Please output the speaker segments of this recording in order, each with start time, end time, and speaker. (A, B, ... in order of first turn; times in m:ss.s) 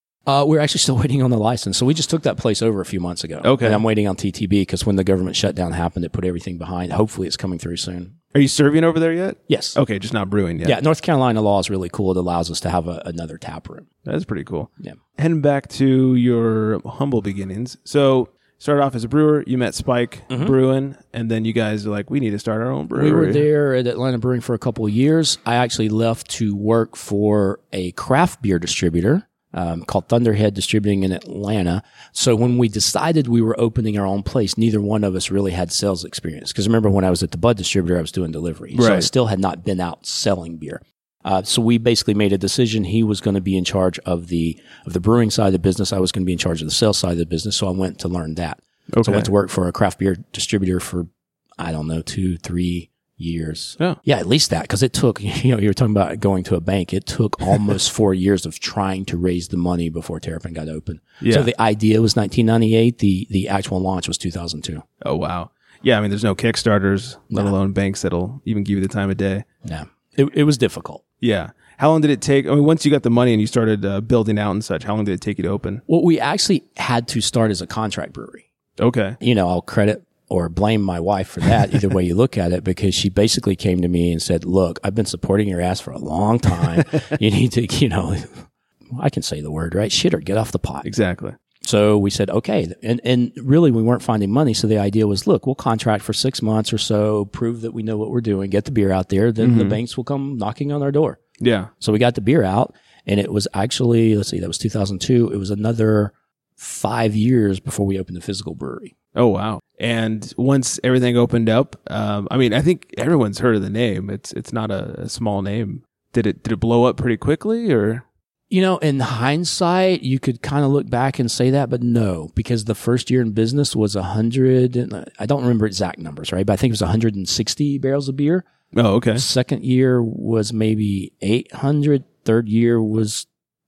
0:00.3-0:08.1 A
0:03.4-0:03.8 B
0:08.3-0:10.8 B
0:09.5-0:09.8 A
0:10.6-0:13.9 A
0:14.0-0:23.5 B
0:20.3-0:20.6 A
0:22.9-0:51.1 A
0:38.7-0:39.1 B
0:48.9-0:49.3 B
0:51.6-1:04.8 A
1:01.2-1:01.5 B
1:05.0-1:09.4 B
1:09.6-1:11.0 A
1:11.2-1:15.8 B
1:15.9-1:18.5 A
1:18.8-1:19.2 B
1:19.2-1:28.4 A
1:28.9-1:30.9 A
1:30.8-1:31.4 B
1:31.6-1:41.2 A
1:39.4-1:39.8 B
1:41.4-1:41.7 B
1:41.8-1:48.9 A
1:49.1-1:58.0 B
1:58.5-2:08.4 A
2:08.7-2:09.2 B
2:09.1-2:13.3 A